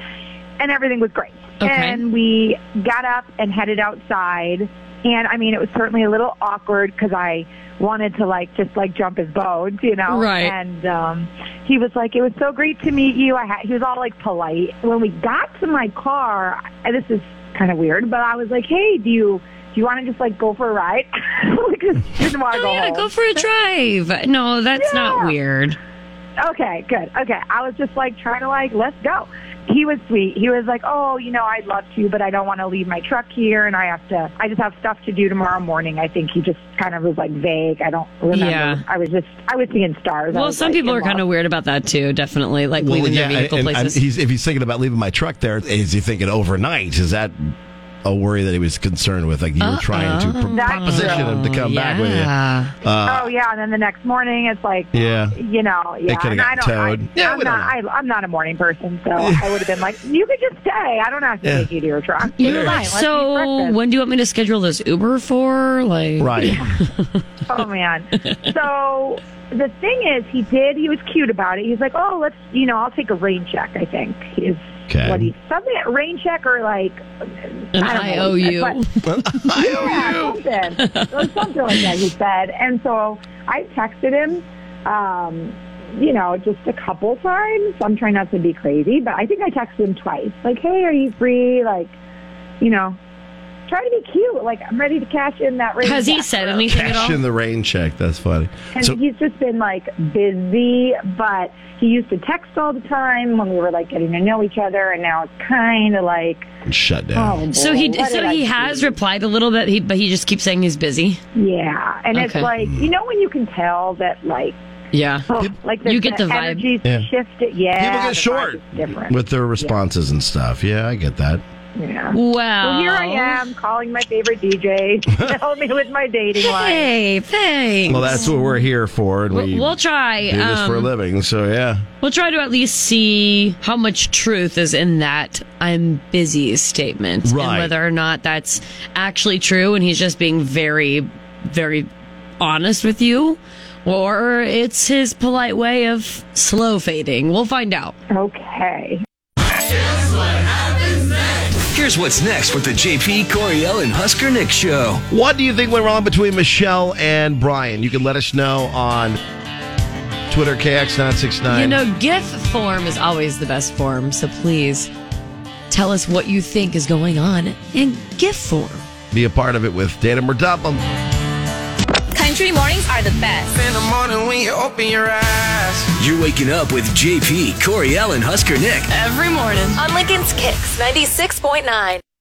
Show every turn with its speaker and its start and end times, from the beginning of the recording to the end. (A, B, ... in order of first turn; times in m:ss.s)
0:00.6-0:23.1 A
0:01.6-0:02.0 B
0:10.1-0:10.6 B
0:22.5-0:25.8 B
0:24.8-0:25.3 A
0:26.4-0:41.2 A
0:38.3-0:38.8 B
0:40.3-0:44.0 B
0:42.8-0:52.3 C
0:49.6-0:52.8 B
0:50.5-0:51.4 A
0:52.8-0:53.3 C
0:53.1-1:03.8 A
0:54.9-0:55.4 C
0:56.1-0:57.8 C
0:59.2-0:59.7 C
1:01.4-1:01.7 C
1:02.4-1:07.1 B
1:02.4-1:02.9 C
1:06.2-1:06.7 C
1:07.5-1:17.0 A
1:14.9-1:15.3 C
1:17.7-1:18.8 A
1:17.8-1:20.2 B
1:19.0-1:20.4 C
1:19.6-1:32.0 A
1:20.8-1:21.8 B
1:32.6-1:33.0 A
1:33.7-1:36.7 A
1:35.8-1:37.2 B
1:36.7-1:39.0 C
1:38.8-1:46.5 A
1:46.7-1:47.4 C
1:47.2-1:49.0 A
1:47.5-1:51.2 B
1:51.4-1:54.6 A
1:52.1-1:52.5 B
1:52.6-1:52.9 C
1:54.9-1:55.3 B
1:55.3-1:59.7 A
1:55.8-1:56.7 B
1:57.8-2:01.4 C
2:01.8-2:06.9 A
2:02.1-2:03.4 B
2:06.4-2:08.3 B
2:07.9-2:11.9 C
2:09.3-2:10.9 B
2:12.0-2:21.9 B
2:17.2-2:17.7 C
2:22.4-2:28.0 B
2:28.1-2:29.0 A
2:31.7-2:35.0 D
2:35.1-2:39.2 C
2:40.3-2:41.8 C
2:41.5-2:44.9 B
2:45.7-2:48.8 B
2:49.1-2:50.8 C
2:52.2-2:53.5 E
2:53.5-2:55.9 F
2:56.0-2:58.9 D
2:59.7-3:02.0 E